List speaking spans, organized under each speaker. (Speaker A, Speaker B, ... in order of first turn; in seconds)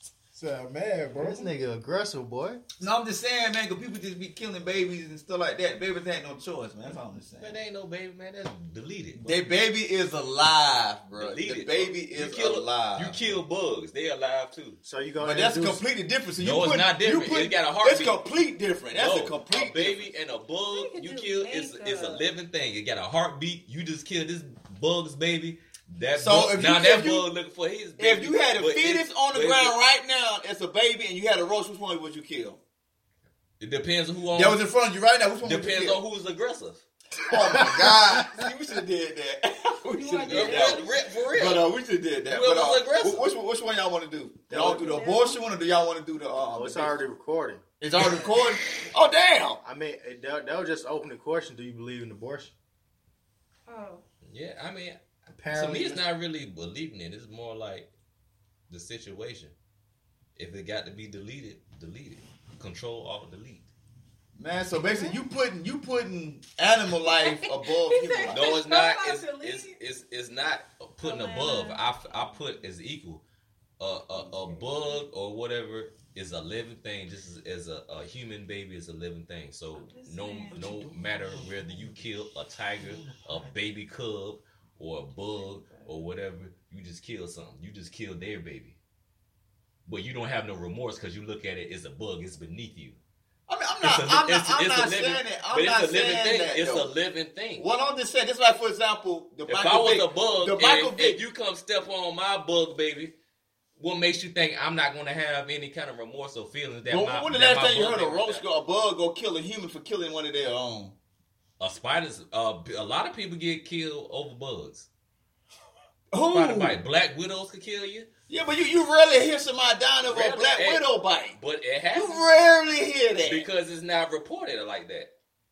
Speaker A: 0.3-1.5, 80.5-82.0, 82.8-83.6
Speaker B: 1.1-2.6, 14.8-15.8, 37.5-38.4, 44.5-44.9, 46.5-47.6, 49.6-52.5, 55.3-56.0
Speaker C: 2.8-7.6, 9.1-13.4, 15.2-20.1, 26.2-27.2, 28.0-32.6, 34.3-36.0, 37.2-47.0, 47.8-49.6, 64.3-68.4, 93.5-96.9, 97.6-101.2, 106.9-110.9, 116.1-116.8, 118.3-121.4, 121.9-123.5
Speaker D: 7.4-9.4, 11.1-14.8, 16.4-18.2, 18.9-29.8, 33.6-34.6, 35.4-36.8, 40.3-41.6, 42.3-43.3, 54.2-57.9, 58.7-59.5, 60.4-63.7, 68.3-73.2, 73.8-88.8, 89.8-93.0, 93.8-97.6, 99.5-103.1, 103.8-108.5, 111.6-114.9, 116.3-118.1, 120.0-122.3, 123.2-125.1
Speaker E: 20.7-22.3, 39.9-40.9, 44.5-45.4, 53.7-54.0, 65.0-65.2, 67.9-69.7, 71.0-72.6, 74.1-75.0, 79.8-80.6, 85.2-85.9